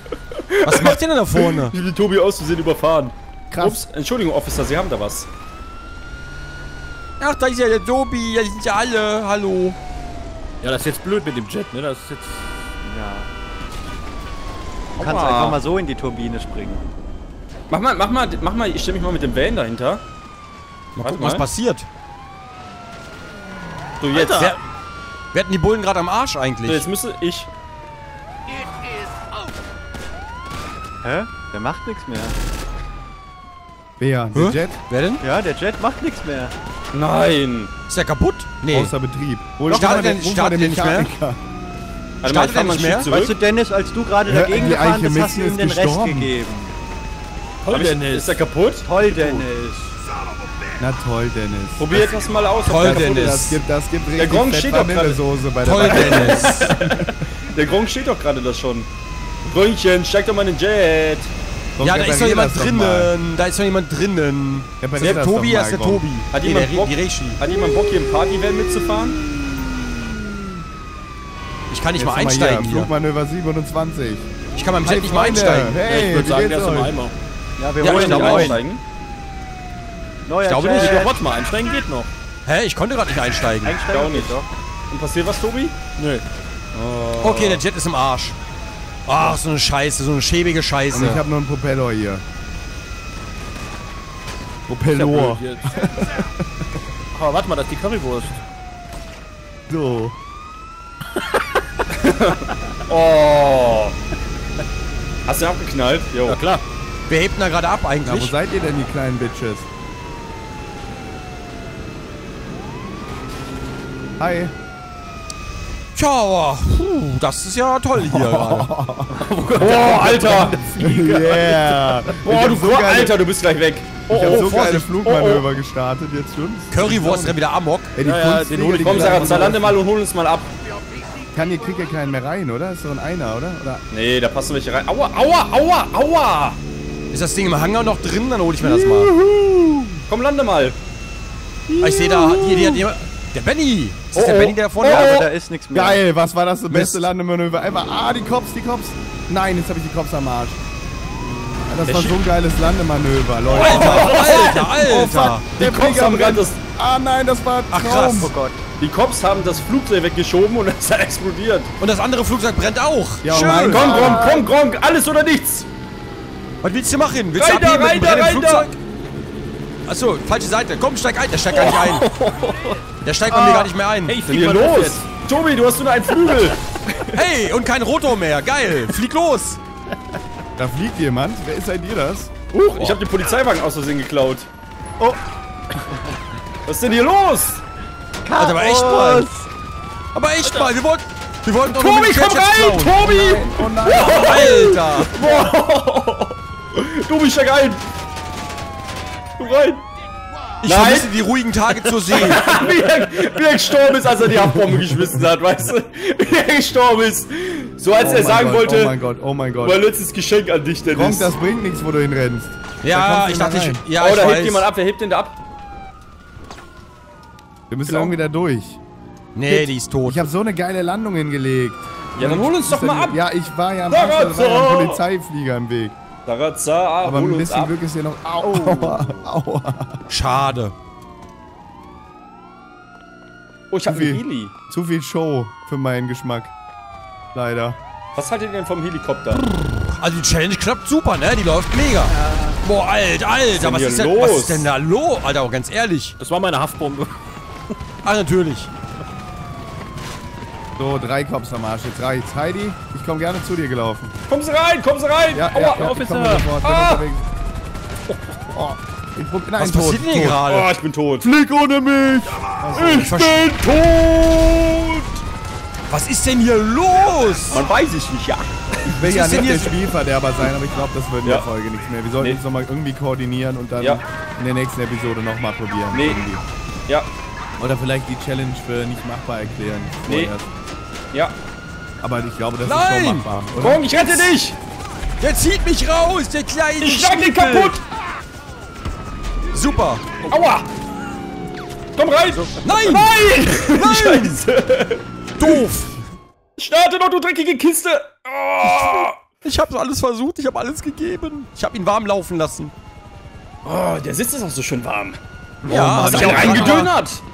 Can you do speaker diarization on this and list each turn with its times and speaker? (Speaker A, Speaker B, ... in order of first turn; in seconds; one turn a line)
Speaker A: 0.3-5.3
Speaker B: 0.6-1.8
Speaker C: 3.5-3.8
Speaker B: 7.2-9.8
Speaker D: 10.6-12.7
Speaker E: 12.8-13.3
Speaker E: 14.9-16.8
Speaker A: 15.0-15.6
Speaker A: 17.7-20.0
Speaker B: 20.9-21.9
Speaker A: 21.0-21.5
Speaker A: 24.0-24.5
Speaker D: 24.1-24.6
Speaker B: 25.3-26.9
Speaker A: 26.6-27.5
Speaker E: 31.0-32.3
Speaker C: 34.0-34.8
Speaker B: 34.3-35.2
Speaker E: 35.2-36.5
Speaker A: 36.9-37.7
Speaker B: 37.9-38.9
Speaker C: 38.7-41.4
Speaker E: 39.7-40.2
Speaker B: 39.7-41.1
Speaker A: 42.2-43.4
Speaker B: 42.2-43.1
Speaker E: 43.1-46.7
Speaker C: 44.2-46.3
Speaker D: 47.6-48.4
Speaker A: 47.7-48.9
Speaker E: 48.8-49.9
Speaker D: 49.0-49.5
Speaker C: 50.8-51.9
Speaker A: 51.8-53.4
Speaker B: 52.6-53.6
Speaker C: 52.7-57.2
Speaker A: 54.1-55.2
Speaker B: 55.6-56.8
Speaker A: 55.9-57.0
Speaker A: 57.5-58.9
Speaker A: 59.5-61.3
Speaker C: 61.8-63.1
Speaker B: 61.8-67.4
Speaker C: 64.8-66.0
Speaker A: 66.3-69.2
Speaker C: 69.1-70.4
Speaker B: 71.7-72.9
Speaker C: 72.0-74.3
Speaker B: 74.5-75.8
Speaker C: 74.8-76.9
Speaker D: 75.8-77.1
Speaker E: 77.6-78.6
Speaker B: 77.8-78.6
Speaker A: 77.8-78.8
Speaker D: 78.1-78.5
Speaker E: 80.2-81.3
Speaker B: 80.4-81.0
Speaker D: 80.7-82.1
Speaker B: 82.5-83.7
Speaker E: 83.6-84.5
Speaker A: 83.8-85.8
Speaker D: 86.0-86.2
Speaker A: 86.7-87.6
Speaker B: 87.2-88.4
Speaker B: 89.0-91.2
Speaker C: 90.9-92.2
Speaker C: 94.7-96.7
Speaker D: 94.9-95.7
Speaker D: 97.1-98.4
Speaker C: 99.7-100.2
Speaker A: 101.9-104.0
Speaker A: 105.3-106.4
Speaker D: 106.2-106.6
Speaker B: 107.1-108.3
Speaker C: 108.0-109.7
Speaker C: 114.2-114.5
Speaker B: 115.9-118.7
Speaker C: 118.0-119.3
Speaker D: 119.1-122.1
Speaker A: 119.6-120.6
Speaker C: 120.4-123.2
Speaker A: 122.2-125.5
Speaker C: 124.1-127.4
Speaker B: 124.1-124.9
Speaker B: 126.7-127.9
Speaker C: 128.0-129.7
Speaker D: 128.0-129.7
Speaker A: 128.8-130.5
Speaker C: 131.3-133.8
Speaker A: 133.9-136.6
Speaker B: 137.1-139.1
Speaker C: 138.7-140.0
Speaker A: 140.1-140.8
Speaker C: 141.7-142.8
Speaker B: 141.8-145.1
Speaker A: 144.1-145.3
Speaker E: 144.8-146.0
Speaker C: 145.7-150.6
Speaker B: 146.7-147.1
Speaker C: 151.7-158.3
Speaker A: 151.9-152.2
Speaker A: 153.5-154.6
Speaker B: 153.5-155.4
Speaker A: 155.6-156.6
Speaker B: 157.7-158.3
Speaker E: 158.2-158.6
Speaker A: 158.8-161.7
Speaker B: 161.8-164.0
Speaker C: 163.2-164.4
Speaker A: 163.4-165.7
Speaker E: 163.9-164.4
Speaker B: 166.6-168.8
Speaker A: 167.4-168.7
Speaker B: 169.8-172.1
Speaker D: 171.5-172.8
Speaker B: 173.0-174.2
Speaker C: 173.3-173.7
Speaker D: 174.1-175.1
Speaker A: 174.2-176.6
Speaker B: 177.1-179.6
Speaker C: 180.6-182.4
Speaker A: 182.5-184.5
Speaker A: 186.7-187.6
Speaker E: 188.2-189.5
Speaker B: 188.4-189.3
Speaker B: 190.1-193.1
Speaker A: 191.7-197.8
Speaker C: 192.9-194.5
Speaker B: 194.0-195.1
Speaker A: 199.4-199.8
Speaker B: 200.6-202.5
Speaker A: 200.6-201.1
Speaker A: 202.1-208.9
Speaker D: 202.4-203.3
Speaker C: 204.4-205.2
Speaker C: 207.9-209.8
Speaker A: 209.6-211.3
Speaker C: 210.9-213.8
Speaker B: 212.8-214.7
Speaker A: 214.0-215.4
Speaker C: 217.7-218.8
Speaker A: 217.9-218.1
Speaker B: 219.3-220.2
Speaker C: 219.4-225.9
Speaker A: 222.2-223.2
Speaker A: 223.9-225.0
Speaker A: 226.2-227.8
Speaker C: 227.0-230.0
Speaker E: 228.4-229.1
Speaker B: 230.1-230.7
Speaker A: 233.7-234.5
Speaker C: 233.9-236.5
Speaker C: 237.3-237.8
Speaker A: 238.2-239.4
Speaker B: 239.3-246.2
Speaker E: 242.1-242.6
Speaker A: 243.5-244.7
Speaker D: 246.2-247.3
Speaker B: 248.0-248.7
Speaker C: 250.8-254.1
Speaker A: 254.3-256.0
Speaker C: 255.3-257.3
Speaker D: 255.7-256.5
Speaker A: 256.6-257.1
Speaker C: 258.5-260.4
Speaker B: 259.6-260.7
Speaker A: 260.4-261.3
Speaker C: 261.2-263.1
Speaker B: 262.7-263.4
Speaker A: 262.7-265.2
Speaker B: 265.9-267.6
Speaker A: 267.5-268.5
Speaker C: 268.9-276.4
Speaker B: 269.0-269.8
Speaker A: 275.9-276.2
Speaker C: 277.6-280.5
Speaker A: 280.1-280.3
Speaker C: 282.0-284.2
Speaker B: 282.6-283.3
Speaker A: 283.6-284.6
Speaker B: 285.2-287.7
Speaker A: 286.8-287.8
Speaker B: 289.5-290.0
Speaker A: 290.3-290.7
Speaker A: 291.9-295.5
Speaker B: 292.6-294.4
Speaker B: 295.4-295.9
Speaker A: 296.6-299.2
Speaker B: 298.6-302.7
Speaker A: 303.6-305.2
Speaker C: 305.6-306.9
Speaker B: 305.6-306.9
Speaker A: 306.0-307.2